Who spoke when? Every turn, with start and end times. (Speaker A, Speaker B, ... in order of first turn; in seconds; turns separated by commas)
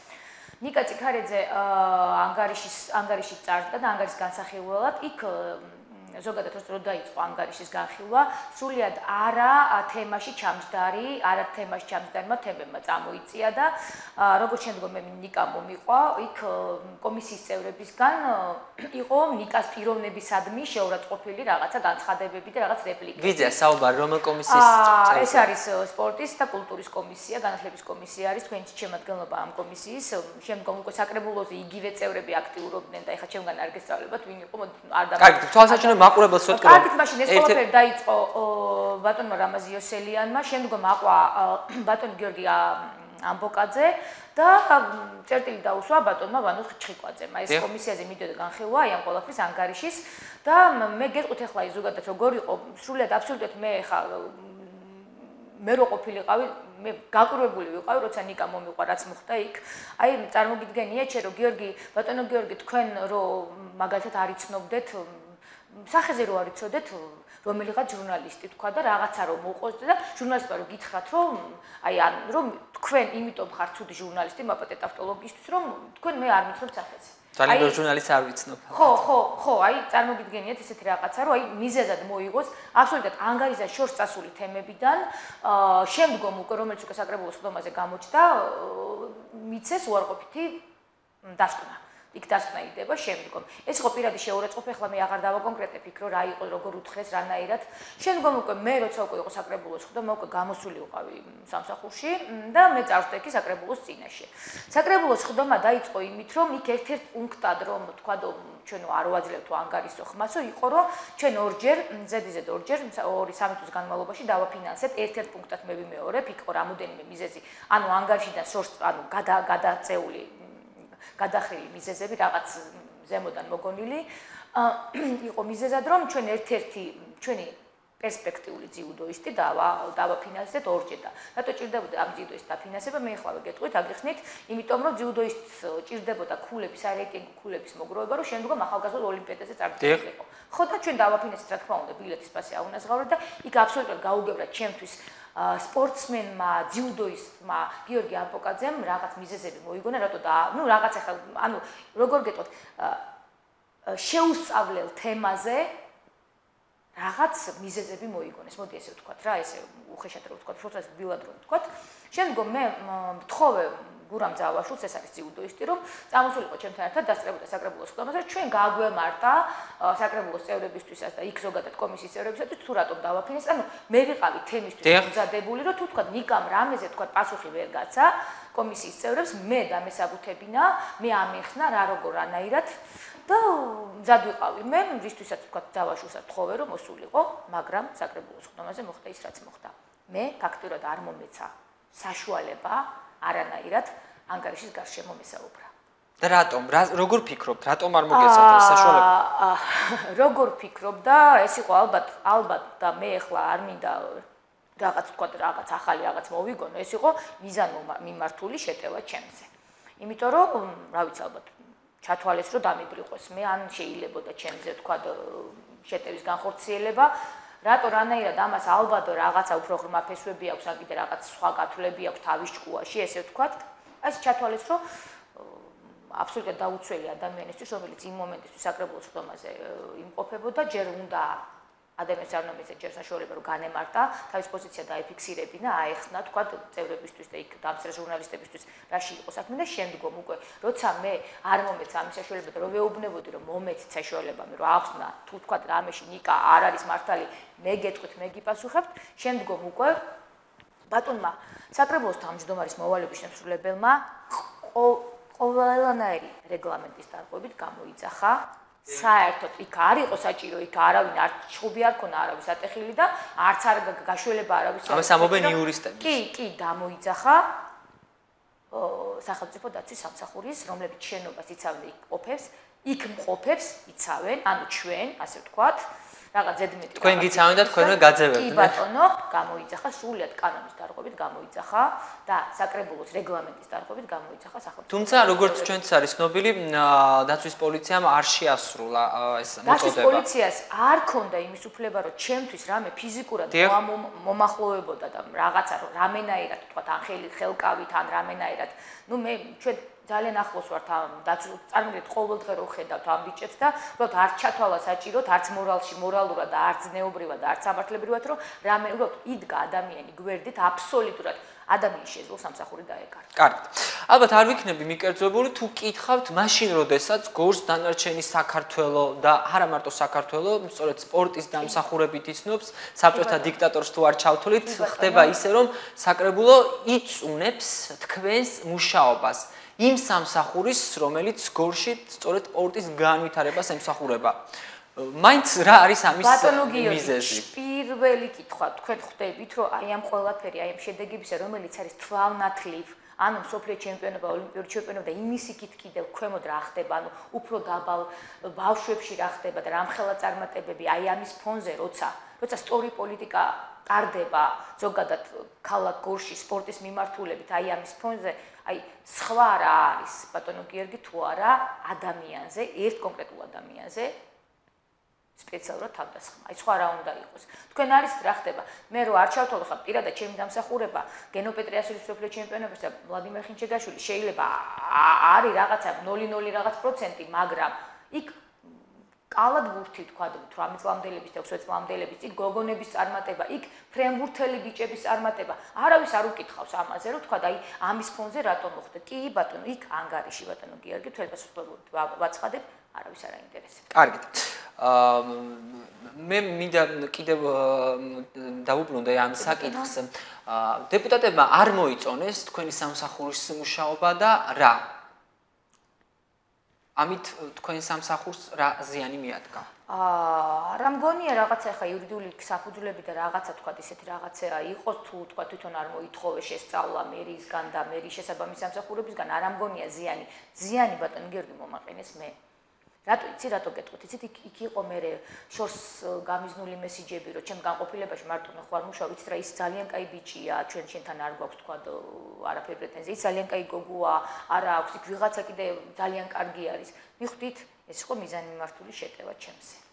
Speaker A: 0.6-23.6, Speaker B: 23.2-25.5, Speaker A: 24.5-77.8, Speaker B: 35.2-37.6, Speaker B: 77.3-79.0, Speaker A: 78.7-90.6, Speaker A: 91.2-153.0, Speaker A: 153.8-155.7, Speaker A: 156.9-182.7, Speaker B: 174.8-175.1, Speaker A: 183.2-195.7, Speaker B: 196.2-199.1, Speaker A: 198.1-204.2, Speaker A: 204.8-209.5, Speaker A: 210.0-217.1, Speaker A: 217.6-224.8, Speaker A: 225.3-231.4, Speaker A: 232.0-250.0, Speaker A: 250.9-267.5, Speaker B: 264.9-266.2, Speaker A: 268.7-275.8, Speaker A: 276.3-285.8, Speaker B: 277.0-278.8, Speaker B: 284.9-290.2, Speaker A: 289.6-313.3, Speaker B: 293.5-293.8, Speaker B: 313.4-334.4, Speaker A: 321.6-321.9, Speaker A: 323.1-323.6, Speaker A: 324.6-325.4, Speaker B: 335.0-337.5, Speaker A: 336.1-364.1, Speaker A: 365.4-378.8, Speaker A: 379.3-393.8, Speaker B: 393.9-404.9, Speaker A: 399.4-399.9, Speaker B: 406.9-409.7, Speaker A: 409.9-422.3, Speaker A: 423.1-439.8